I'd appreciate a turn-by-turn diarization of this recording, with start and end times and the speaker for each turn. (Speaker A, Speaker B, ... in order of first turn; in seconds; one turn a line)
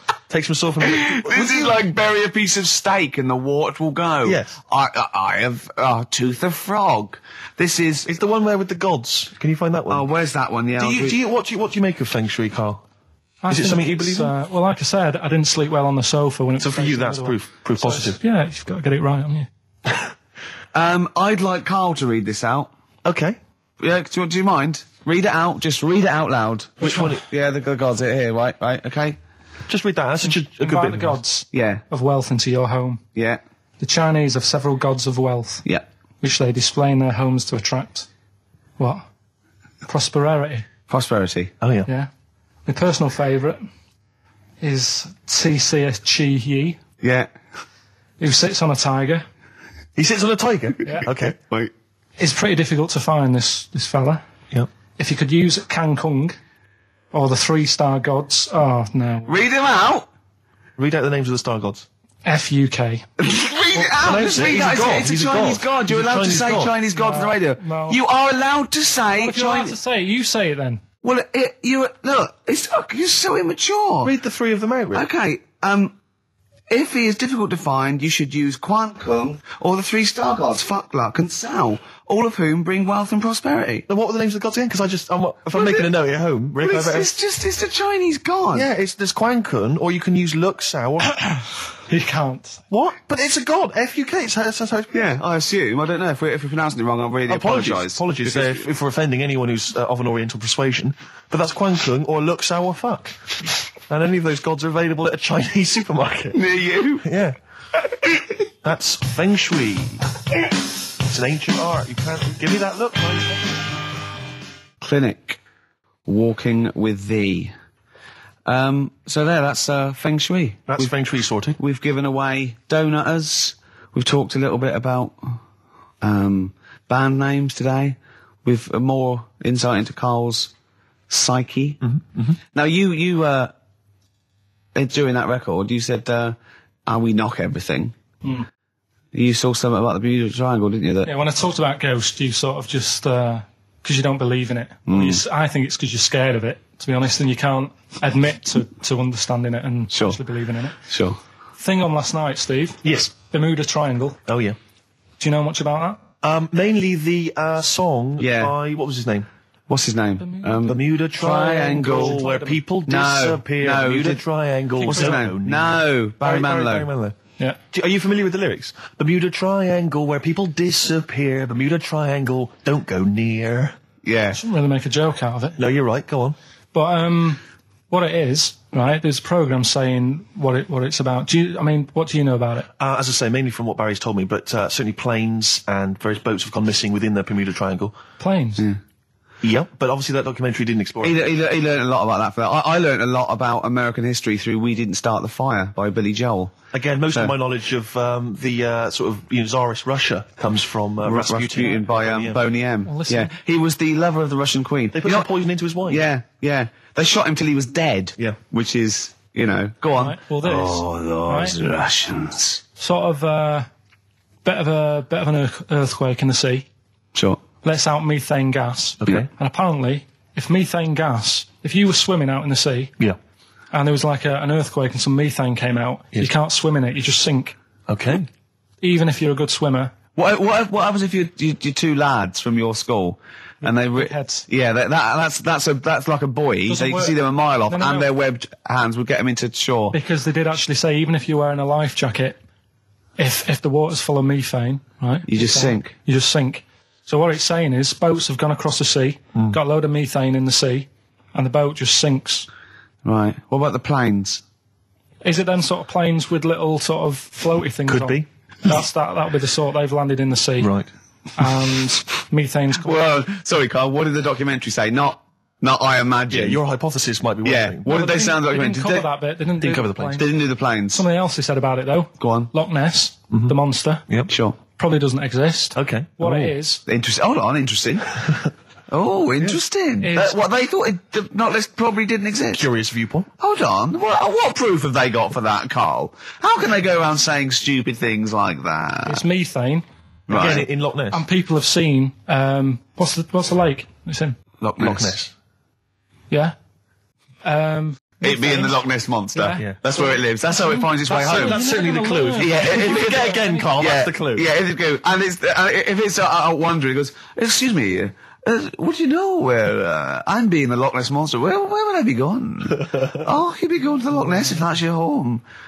Speaker A: 0.3-1.8
Speaker B: 0.8-8.1
Speaker A: 4.2-4.5
Speaker A: 8.1-10.1
Speaker B: 9.9-11.2
Speaker A: 10.8-12.8
Speaker C: 13.4-19.5
Speaker A: 13.5-14.3
Speaker A: 16.6-18.2
Speaker B: 20.7-22.7
Speaker A: 23.0-23.4
Speaker B: 23.8-29.2
Speaker A: 26.8-27.2
Speaker A: 29.7-31.2
Speaker C: 30.6-33.0
Speaker B: 31.5-31.8
Speaker B: 33.1-33.4
Speaker C: 33.8-35.6
Speaker C: 36.2-38.1
Speaker C: 38.8-39.0
Speaker C: 39.8-40.6
Speaker B: 40.9-41.5
Speaker A: 41.6-41.9
Speaker C: 42.6-43.6
Speaker C: 44.6-46.8
Speaker B: 47.0-47.3
Speaker C: 48.2-49.2
Speaker A: 50.0-51.3
Speaker B: 51.0-51.7
Speaker C: 52.2-54.2
Speaker C: 55.0-56.4
Speaker C: 57.1-59.3
Speaker B: 59.3-60.1
Speaker A: 60.8-61.9
Speaker C: 62.2-63.0
Speaker B: 63.2-69.7
Speaker A: 63.7-66.7
Speaker C: 66.9-68.0
Speaker C: 69.2-70.8
Speaker B: 71.0-74.1
Speaker A: 74.0-75.1
Speaker B: 74.9-75.9
Speaker B: 76.7-83.8
Speaker A: 83.9-87.1
Speaker B: 85.5-85.9
Speaker B: 86.6-88.7
Speaker A: 88.5-91.1
Speaker C: 91.3-92.6
Speaker A: 92.7-94.9
Speaker B: 94.9-98.7
Speaker A: 97.3-103.3
Speaker A: 103.9-106.4
Speaker B: 106.3-107.0
Speaker A: 107.0-107.3
Speaker A: 108.6-110.0
Speaker A: 111.0-113.7
Speaker B: 114.8-115.4
Speaker B: 116.0-117.5
Speaker B: 118.5-120.9
Speaker A: 120.7-121.6
Speaker B: 121.6-125.4
Speaker B: 126.0-130.5
Speaker B: 131.1-131.8
Speaker A: 131.8-132.4
Speaker B: 132.5-133.5
Speaker B: 134.7-137.9
Speaker B: 139.1-141.1
Speaker C: 141.0-150.8
Speaker B: 144.9-145.2
Speaker B: 149.9-150.2
Speaker B: 150.9-151.2
Speaker C: 151.6-154.2
Speaker A: 152.8-153.1
Speaker A: 154.2-154.6
Speaker C: 155.2-156.0
Speaker A: 156.2-159.3
Speaker B: 158.2-158.5
Speaker B: 159.7-162.2
Speaker C: 160.2-160.6
Speaker A: 160.7-167.2
Speaker C: 161.8-162.6
Speaker B: 162.9-164.2
Speaker C: 164.8-165.2
Speaker B: 164.9-166.9
Speaker A: 167.7-173.7
Speaker B: 174.0-174.4
Speaker C: 174.3-175.6
Speaker A: 175.6-176.3
Speaker C: 176.7-182.7
Speaker A: 182.8-188.0
Speaker C: 188.2-188.6
Speaker A: 189.4-191.3
Speaker B: 191.0-196.5
Speaker A: 196.7-202.4
Speaker B: 201.0-205.3
Speaker C: 202.8-203.3
Speaker A: 204.9-206.0
Speaker B: 205.9-212.6
Speaker C: 209.9-211.6
Speaker C: 212.8-213.7
Speaker C: 214.4-216.7
Speaker B: 217.1-217.4
Speaker C: 217.6-222.9
Speaker A: 219.0-219.3
Speaker C: 223.7-227.5
Speaker A: 227.9-228.3
Speaker C: 228.8-229.9
Speaker B: 230.2-239.9
Speaker C: 233.7-234.4
Speaker C: 236.7-238.1
Speaker C: 239.9-242.4
Speaker C: 243.2-252.5
Speaker B: 245.3-245.9
Speaker B: 253.0-254.4
Speaker C: 255.2-260.7
Speaker A: 257.9-258.2
Speaker A: 260.6-260.9
Speaker C: 261.4-263.0
Speaker B: 262.8-266.6
Speaker A: 266.3-267.9
Speaker B: 267.4-269.1
Speaker C: 267.9-270.4
Speaker A: 269.6-270.2
Speaker B: 270.2-271.0
Speaker C: 270.9-274.1
Speaker B: 272.2-272.5
Speaker B: 274.3-274.6
Speaker C: 274.7-276.8
Speaker A: 275.8-276.6
Speaker B: 276.9-278.1
Speaker B: 278.9-282.6
Speaker C: 280.0-280.4
Speaker A: 282.5-283.3
Speaker B: 283.4-289.2
Speaker C: 289.1-289.8
Speaker B: 290.3-290.6
Speaker A: 290.3-291.2
Speaker C: 291.1-294.4
Speaker B: 294.6-295.2
Speaker A: 294.8-295.3
Speaker C: 296.3-296.5
Speaker C: 297.4-298.8
Speaker B: 298.2-301.6
Speaker C: 299.3-300.1
Speaker C: 300.9-303.7
Speaker A: 301.1-304.5
Speaker B: 302.4-315.4
Speaker A: 312.8-313.3